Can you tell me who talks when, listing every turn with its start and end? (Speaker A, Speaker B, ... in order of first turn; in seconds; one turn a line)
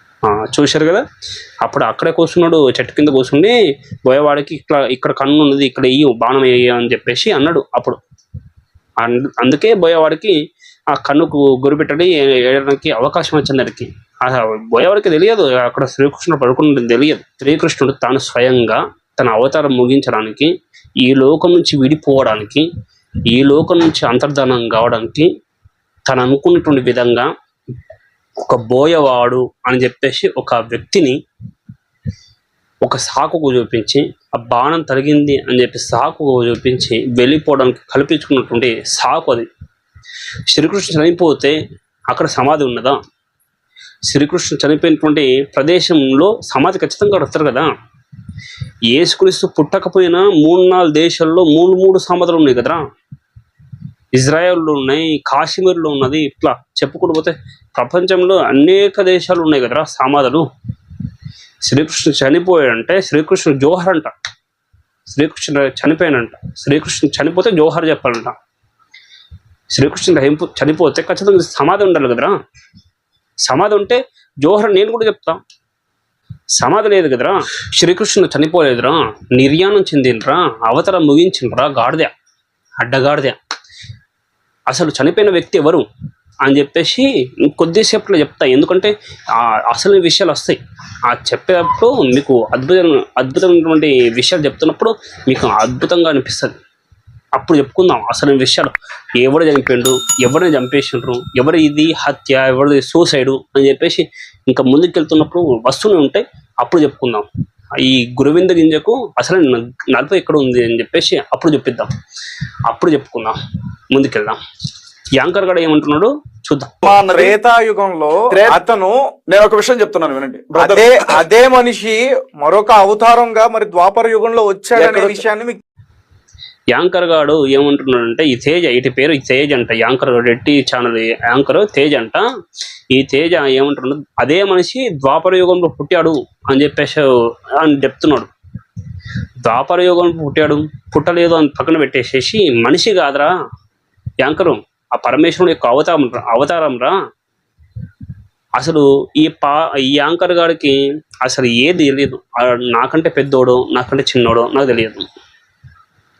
Speaker A: 0.3-1.0
Speaker A: 1.6-3.5
Speaker A: 4.0-8.0
Speaker A: 9.0-10.3
Speaker A: 10.9-20.5
Speaker A: 21.0-22.6
Speaker A: 23.3-25.3
Speaker A: 26.1-27.2
Speaker A: 28.4-31.1
Speaker A: 32.8-39.5
Speaker A: 40.5-41.5
Speaker A: 42.1-43.0
Speaker A: 44.1-47.7
Speaker A: 48.9-52.8
Speaker A: 54.1-60.4
Speaker A: 61.6-64.1
Speaker A: 65.1-68.3
Speaker A: 69.7-72.3
Speaker A: 73.4-75.4
Speaker A: 76.6-82.1
Speaker A: 82.8-83.4
Speaker A: 84.7-85.8
Speaker A: 86.4-88.9
Speaker A: 89.7-90.6
Speaker A: 91.1-96.6
Speaker A: 97.3-107.3
Speaker A: 107.8-111.9
Speaker A: 112.7-113.4
Speaker A: 113.9-114.4
Speaker A: 115.2-116.7
Speaker B: 116.8-117.4
Speaker C: 116.8-118.9
Speaker B: 118.3-118.6
Speaker B: 119.3-121.1
Speaker C: 120.5-125.6
Speaker B: 124.8-125.2
Speaker A: 126.7-132.2
Speaker A: 132.9-137.0
Speaker A: 137.6-138.3
Speaker A: 139.4-143.3
Speaker A: 144.2-146.9
Speaker A: 148.6-155.1